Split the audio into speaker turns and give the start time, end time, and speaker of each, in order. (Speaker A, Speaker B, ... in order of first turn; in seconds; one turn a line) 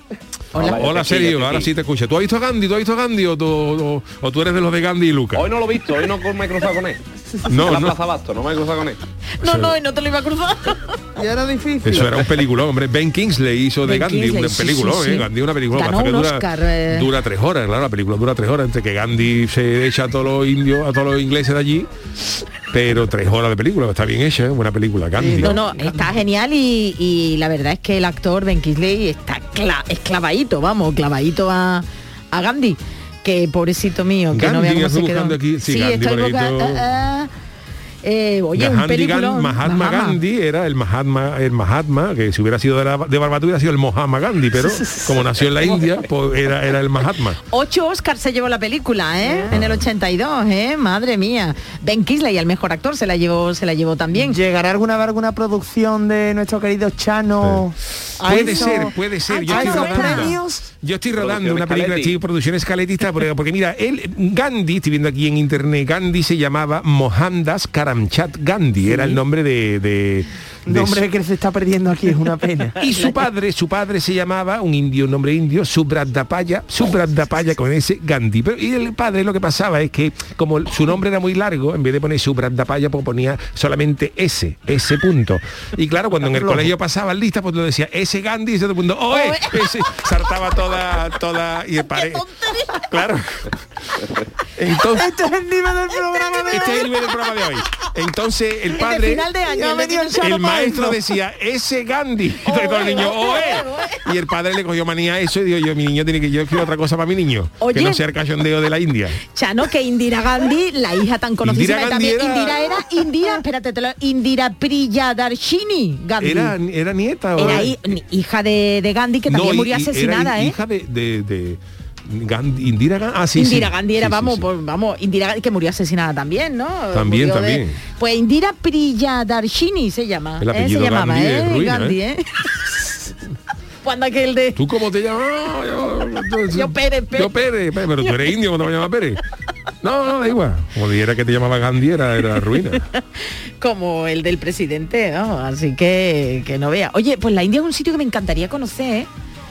Speaker A: 0.6-5.5
Speaker B: 0.6-1.7
Speaker B: 5.3-9.0
Speaker A: 7.5-8.0
Speaker C: 9.4-11.0
Speaker A: 9.4-9.8
Speaker D: 11.2-12.2
Speaker A: 11.8-21.9
Speaker C: 13.8-17.1
Speaker A: 22.7-25.6
Speaker D: 25.2-26.1
Speaker C: 25.3-37.3
Speaker A: 34.3-36.9
Speaker C: 38.0-40.2
Speaker A: 38.5-47.4
Speaker C: 47.5-54.4
Speaker D: 49.2-49.5
Speaker A: 49.5-49.8
Speaker D: 54.1-60.6
Speaker A: 58.2-71.0
Speaker C: 58.3-60.4
Speaker B: 61.2-62.1
Speaker D: 70.7-72.8
Speaker A: 72.8-92.2
Speaker D: 86.2-86.7
Speaker C: 89.1-89.7
Speaker C: 91.9-92.9
Speaker A: 92.8-93.5
Speaker A: 94.6-95.1
Speaker D: 94.9-96.9
Speaker A: 96.5-99.3
Speaker C: 98.7-100.6
Speaker D: 99.4-101.0
Speaker A: 100.2-109.2
Speaker C: 102.4-104.1
Speaker C: 107.6-108.0
Speaker C: 109.3-116.5
Speaker A: 111.4-113.0
Speaker A: 116.2-117.9
Speaker C: 117.4-120.6
Speaker A: 119.3-124.5
Speaker C: 123.4-133.0
Speaker A: 126.9-127.8
Speaker A: 130.4-132.0
Speaker C: 133.8-134.6
Speaker A: 134.6-139.2
Speaker C: 136.5-137.4
Speaker A: 139.8-142.9
Speaker C: 143.6-149.1